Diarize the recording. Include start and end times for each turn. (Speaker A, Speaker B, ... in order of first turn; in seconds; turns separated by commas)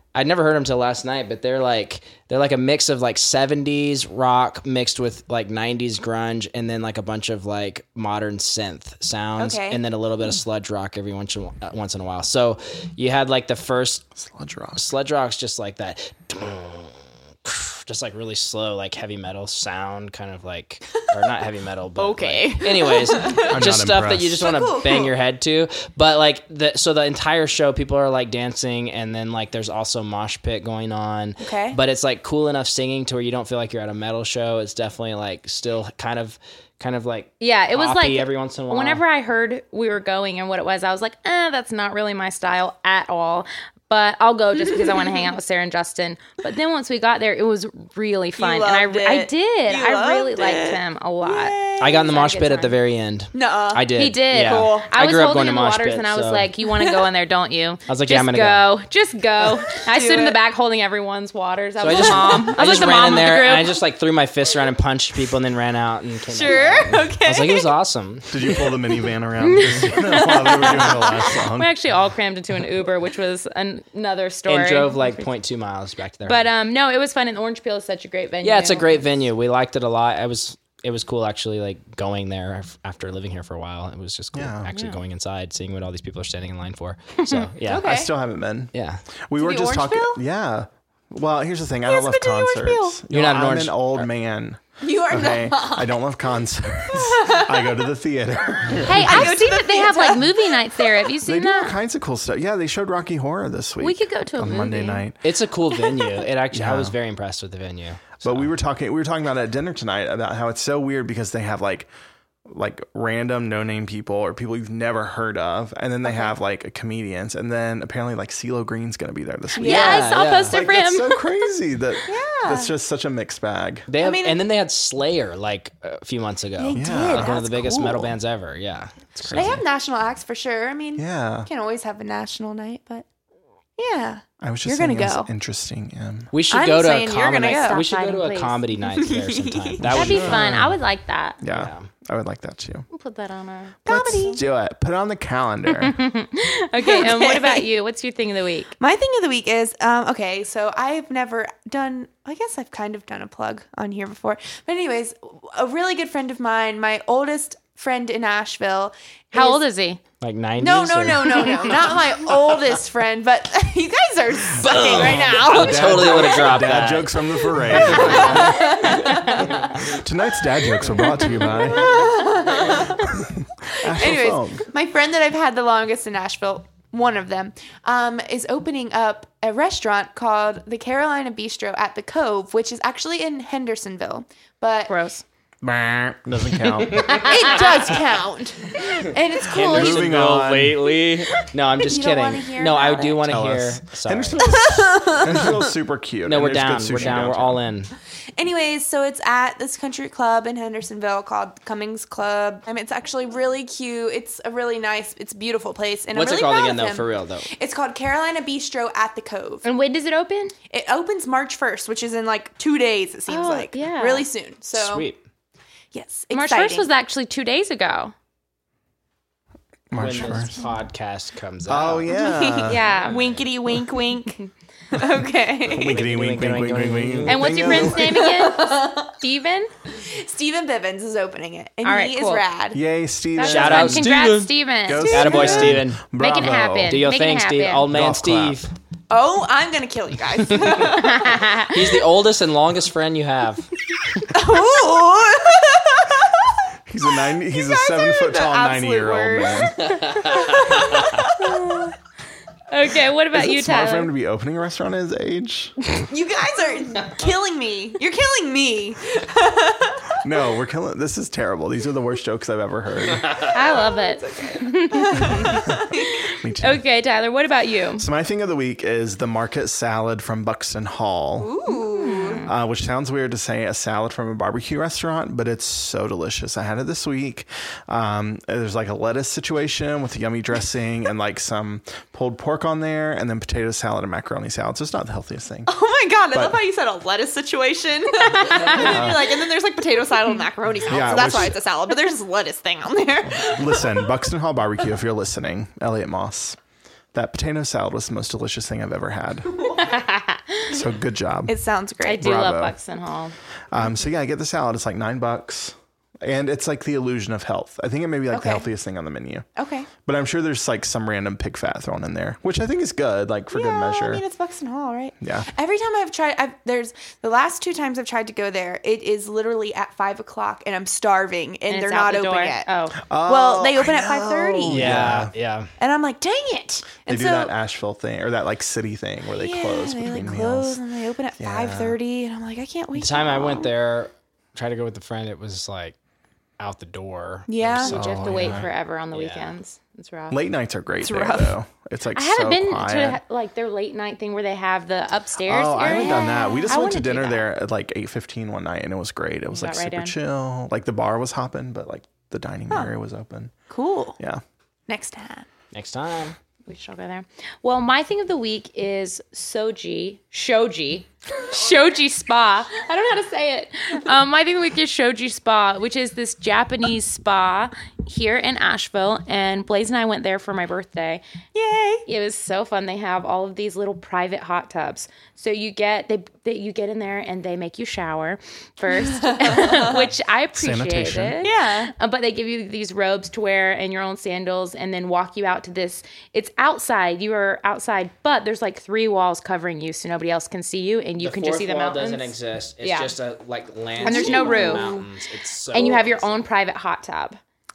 Speaker A: 0.1-14.1, Speaker B: 9.4-9.8, Speaker C: 14.2-14.8, Speaker A: 14.8-39.0, Speaker B: 22.0-23.6, Speaker C: 23.5-24.5, Speaker B: 24.4-25.1, Speaker B: 31.4-31.8, Speaker D: 37.4-52.8, Speaker B: 48.4-52.1, Speaker A: 51.8-56.5, Speaker B: 53.3-54.9, Speaker D: 53.9-63.8, Speaker A: 57.9-58.7, Speaker B: 59.7-60.4, Speaker A: 61.8-68.7, Speaker B: 62.0-62.5, Speaker B: 66.3-67.7, Speaker C: 68.3-71.7, Speaker D: 69.4-75.3, Speaker B: 70.2-71.2, Speaker A: 74.5-76.5, Speaker D: 76.2-79.1, Speaker A: 78.4-87.9, Speaker C: 84.3-84.7, Speaker D: 84.7-85.0, Speaker D: 87.2-87.5, Speaker B: 87.6-88.1, Speaker C: 87.8-88.7, Speaker A: 88.7-89.0, Speaker C: 89.3-99.4, Speaker B: 89.4-90.2, Speaker B: 91.9-93.0, Speaker A: 93.1-94.1, Speaker B: 94.8-95.9, Speaker B: 96.9-97.7, Speaker D: 98.8-101.8, Speaker B: 98.9-100.9, Speaker C: 101.2-105.2, Speaker D: 103.8-105.1, Speaker A: 105.2-108.5, Speaker C: 106.5-107.0, Speaker C: 108.2-111.9, Speaker C: 112.5-123.9, Speaker B: 119.6-120.0, Speaker D: 119.6-121.4, Speaker A: 119.6-120.6, Speaker B: 122.1-122.7, Speaker A: 123.9-129.6, Speaker B: 124.0-124.4, Speaker B: 126.6-128.1, Speaker C: 126.7-127.4, Speaker C: 129.2-129.6, Speaker B: 129.3-133.1, Speaker C: 131.0-131.5, Speaker B: 133.8-135.3, Speaker C: 134.4-136.3, Speaker A: 136.3-140.5, Speaker B: 136.5-137.8, Speaker D: 137.4-138.6, Speaker B: 138.8-139.8, Speaker C: 139.8-140.8, Speaker D: 139.9-141.4, Speaker C: 141.4-142.9, Speaker A: 141.5-141.9, Speaker D: 142.9-143.8, Speaker C: 143.8-146.0, Speaker B: 143.9-144.4, Speaker D: 145.7-148.8, Speaker B: 146.8-147.7, Speaker B: 148.8-159.6, Speaker D: 159.3-160.0, Speaker A: 160.2-162.0, Speaker B: 160.6-166.6, Speaker A: 164.6-169.8, Speaker C: 164.7-172.1, Speaker B: 167.8-169.5, Speaker D: 168.9-169.3, Speaker B: 171.4-173.2, Speaker C: 173.1-174.7, Speaker B: 173.8-184.9, Speaker D: 184.9-185.2, Speaker C: 185.6-187.6, Speaker A: 186.7-187.8, Speaker B: 187.2-190.1, Speaker A: 189.4-194.7, Speaker C: 189.5-191.0, Speaker B: 191.8-193.2, Speaker C: 193.3-197.6, Speaker B: 194.6-195.6, Speaker A: 196.3-197.9, Speaker B: 198.4-209.7, Speaker A: 206.1-207.5, Speaker D: 209.6-210.5, Speaker B: 210.7-215.1, Speaker D: 213.3-214.3, Speaker A: 214.7-215.2, Speaker B: 215.9-216.9, Speaker D: 216.3-218.1, Speaker C: 219.9-220.6, Speaker A: 219.9-222.1, Speaker C: 221.7-223.0, Speaker B: 222.1-226.0, Speaker D: 222.6-223.2, Speaker A: 223.0-223.4, Speaker C: 225.7-228.2, Speaker A: 225.9-227.9, Speaker D: 227.3-229.7, Speaker B: 227.7-229.1, Speaker B: 229.9-232.8, Speaker D: 231.8-232.4, Speaker C: 232.7-234.1, Speaker D: 233.4-237.8, Speaker A: 233.4-236.0, Speaker C: 234.9-237.0, Speaker A: 236.9-238.7, Speaker C: 237.9-238.6, Speaker B: 239.1-241.7, Speaker D: 240.9-241.8, Speaker A: 241.6-244.2, Speaker B: 244.3-246.6, Speaker C: 246.9-249.9, Speaker B: 247.4-251.9, Speaker A: 249.9-251.0, Speaker D: 251.4-251.9, Speaker D: 252.7-254.1, Speaker C: 253.3-255.8, Speaker B: 255.9-260.2, Speaker C: 260.2-263.3, Speaker B: 263.4-266.3, Speaker D: 263.5-268.1, Speaker C: 266.4-266.8, Speaker C: 268.0-271.5, Speaker B: 271.4-272.4, Speaker D: 271.7-272.5, Speaker C: 272.5-285.7, Speaker B: 285.7-294.0, Speaker C: 286.3-286.6, Speaker C: 288.7-289.3, Speaker C: 290.9-291.6, Speaker C: 293.3-296.6, Speaker C: 297.1-299.6, Speaker B: 299.6-299.9, Speaker D: 299.8-300.7, Speaker C: 300.7-301.5, Speaker B: 301.5-302.3, Speaker D: 302.0-303.4, Speaker C: 302.2-302.8, Speaker C: 303.7-309.5, Speaker B: 308.3-308.7, Speaker B: 309.6-309.9, Speaker C: 310.0-314.2, Speaker B: 313.5-322.7, Speaker C: 315.2-315.5, Speaker D: 321.7-323.0, Speaker C: 323.1-325.3, Speaker B: 323.3-325.2, Speaker A: 324.7-325.7, Speaker B: 325.8-327.5, Speaker C: 327.1-330.8, Speaker B: 329.3-333.7, Speaker C: 331.4-332.0, Speaker A: 332.9-336.0, Speaker A: 336.6-339.5, Speaker B: 337.5-337.9, Speaker D: 337.8-340.4, Speaker C: 337.8-338.7, Speaker C: 340.3-343.2, Speaker B: 341.0-341.6, Speaker D: 342.1-347.4, Speaker C: 345.4-353.5, Speaker D: 349.5-350.2, Speaker B: 353.7-354.2, Speaker B: 354.9-355.5, Speaker A: 355.7-356.4, Speaker D: 356.7-371.2, Speaker B: 371.5-372.1, Speaker D: 372.1-393.1, Speaker B: 379.1-380.0, Speaker C: 380.6-381.4, Speaker B: 381.4-381.9, Speaker A: 391.2-396.4, Speaker B: 394.0-395.1, Speaker D: 394.1-394.9, Speaker D: 395.7-397.4